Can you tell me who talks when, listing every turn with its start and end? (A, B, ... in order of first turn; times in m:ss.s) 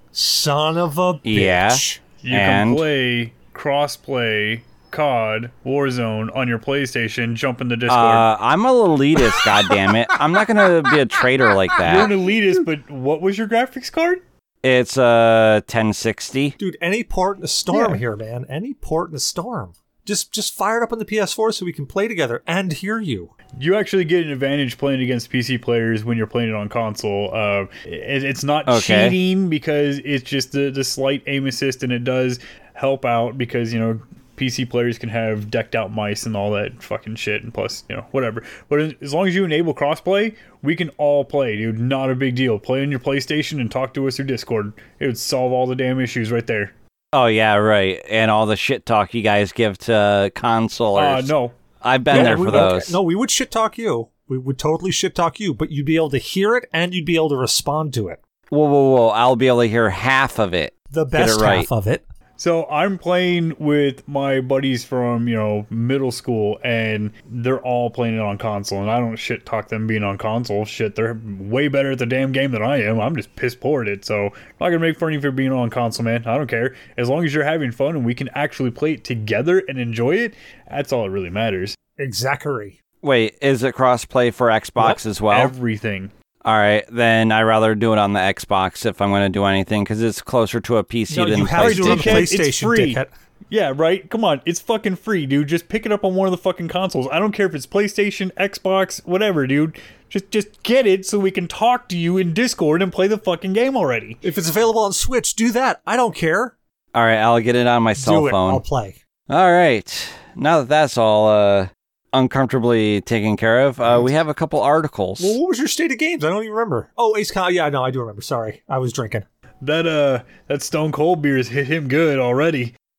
0:00.1-0:02.0 A
0:01.2-0:02.8 B
0:02.2-0:08.3 C
0:07.9-0:12.1 B
0:11.8-0:14.2 C
0:14.6-0:16.6 B
0:16.6-0:23.3 A
0:17.7-0:18.0 C
0:23.6-0:46.7 C
0:28.6-0:29.2 B
0:47.1-0:53.0 B
0:50.9-0:51.6 C
0:52.1-0:58.2 A
0:52.1-0:52.7 C
0:58.5-1:01.7 B
1:00.9-1:02.0 A
1:02.4-1:21.7 C
1:22.0-1:22.8 A
1:23.0-1:25.5 B
1:24.8-1:26.1 C
1:26.4-1:32.2 B
1:31.1-1:33.1 A
1:31.6-1:33.0 C
1:33.5-1:44.2 C
1:44.2-1:46.6 A
1:46.9-1:48.6 B
1:48.0-1:49.0 A
1:49.3-1:55.4 B
1:53.8-1:54.1 A
1:55.2-1:59.2 A
1:59.6-2:02.7 C